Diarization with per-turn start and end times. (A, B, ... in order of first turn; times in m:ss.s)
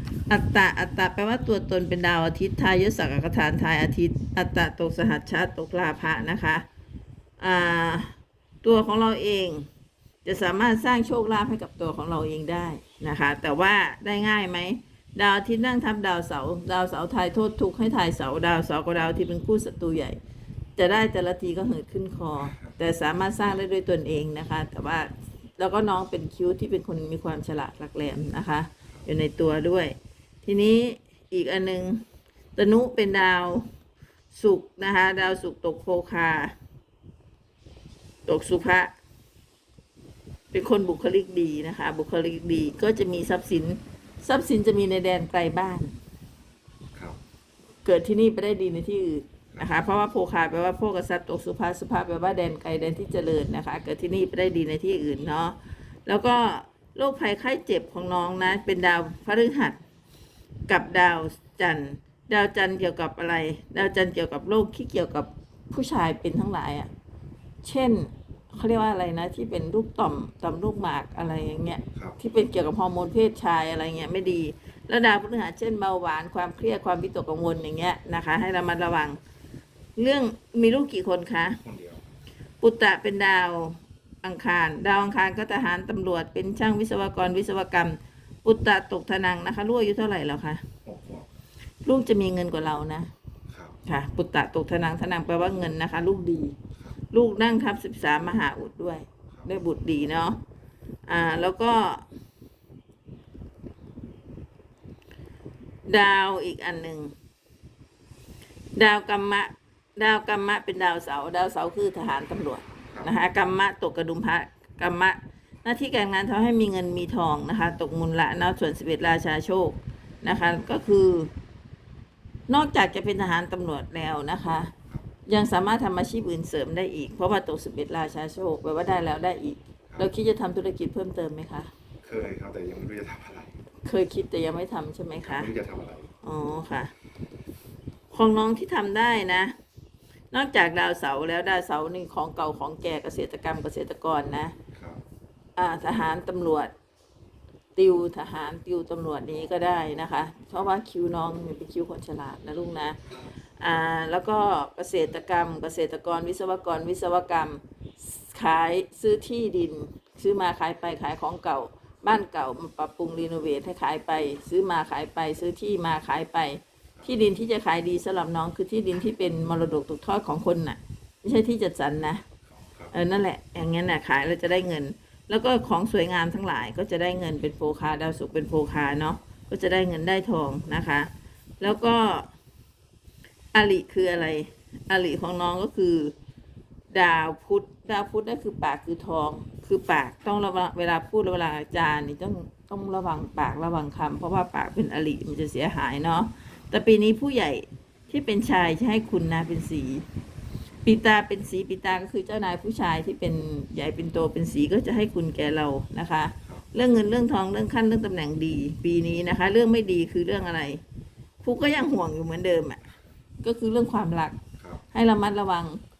0:00.3-0:06.6 A
0:07.4-0:09.7 A
0:10.2-0:20.2 A
0:20.8-0:32.0 A
0:22.5-0:22.7 B
0:32.5-0:33.7 A
0:34.3-0:36.5 A
0:38.3-0:38.9 A
0:40.5-0:45.9 A
0:47.8-0:59.8 A
1:00.7-1:06.9 A
1:07.6-1:19.2 A
1:20.0-1:21.6 A
1:21.6-1:22.0 B
1:22.6-1:30.6 A
1:30.8-1:31.3 B
1:31.8-1:33.1 A
1:33.5-1:33.8 B
1:33.8-1:36.5 A
1:37.1-1:40.4 A
1:41.1-1:42.0 A
1:45.9-1:47.1 A
1:48.8-2:01.3 A
2:02.5-2:04.7 A
2:05.3-2:11.7 A
2:12.0-2:13.5 B
2:13.8-2:15.5 A
2:15.2-2:16.1 B
2:16.2-2:16.9 A
2:18.1-2:19.5 A
2:20.3-2:24.6 A
2:24.7-2:25.0 B
2:25.6-2:26.7 A
2:27.8-2:33.0 A
2:33.6-2:52.2 A
2:52.5-2:52.9 B
2:52.9-3:02.3 A
3:03.5-3:06.1 A
3:06.9-3:20.1 A
3:20.8-3:30.8 A
3:31.4-3:32.8 A
3:33.4-3:34.4 A
3:34.9-3:35.8 A